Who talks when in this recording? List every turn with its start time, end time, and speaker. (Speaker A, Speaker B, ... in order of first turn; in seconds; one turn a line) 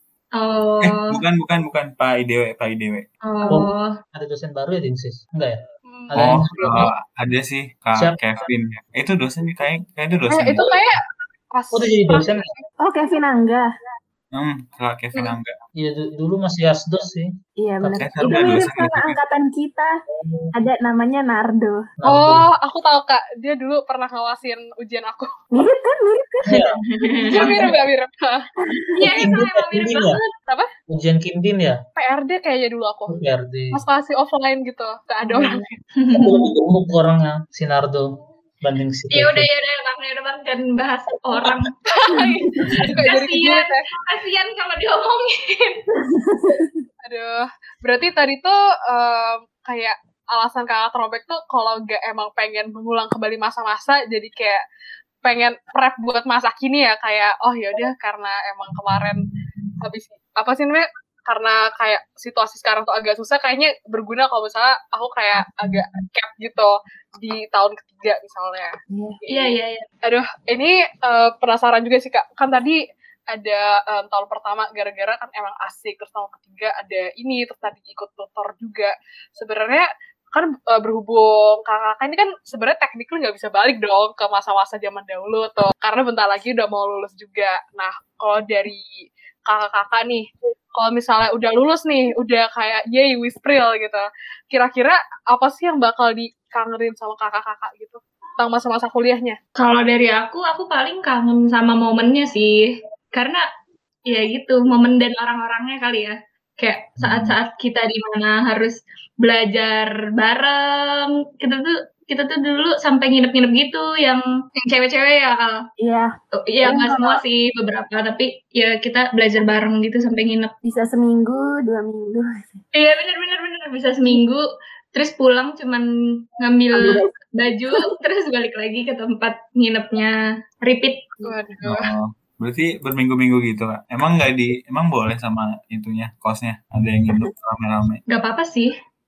Speaker A: 0.4-1.2
Speaker B: 0.8-3.0
Speaker A: 3.3-3.9
Speaker C: 3.5-6.9
Speaker D: 5.9-7.0
Speaker B: 6.2-10.8
Speaker D: 10.3-11.0
Speaker D: 11.6-12.6
Speaker C: 11.7-12.5
Speaker E: 12.8-13.7
Speaker B: 14.3-15.6
Speaker C: 15.8-17.3
Speaker E: 17.6-19.9
Speaker C: 17.8-18.5
Speaker B: 18.0-19.2
Speaker C: 20.1-20.5
Speaker E: 20.5-21.8
Speaker C: 22.0-22.5
Speaker D: 22.1-25.3
Speaker E: 25.6-27.5
Speaker C: 26.5-26.7
Speaker A: 26.8-27.6
Speaker D: 27.2-28.5
Speaker A: 29.0-30.3
Speaker C: 29.1-30.2
Speaker C: 30.9-31.8
Speaker D: 32.0-33.2
Speaker C: 33.1-33.8
Speaker D: 33.7-35.7
Speaker E: 35.3-35.7
Speaker A: 35.4-36.4
Speaker C: 36.1-39.5
Speaker A: 39.1-42.2
Speaker D: 41.9-43.9
Speaker E: 42.6-42.8
Speaker A: 43.0-45.8
Speaker E: 46.0-46.8
Speaker D: 47.0-54.6
Speaker D: 55.2-59.2
Speaker D: 59.8-68.7
Speaker E: 68.9-69.2
Speaker D: 69.2-72.8
Speaker A: 69.3-69.9
Speaker D: 73.3-88.8
Speaker D: 89.5-99.4
Speaker A: 99.6-102.6
Speaker A: 103.1-103.4
Speaker A: 104.1-115.6
Speaker B: 107.0-107.3
Speaker E: 115.8-117.2
Speaker A: 116.4-120.5
Speaker E: 120.6-122.6
Speaker A: 122.7-124.4
Speaker A: 124.9-125.9
Speaker A: 126.4-130.1
Speaker E: 126.8-127.1
Speaker A: 130.6-131.1
Speaker D: 131.2-131.9
Speaker B: 131.6-138.0
Speaker A: 138.1-138.7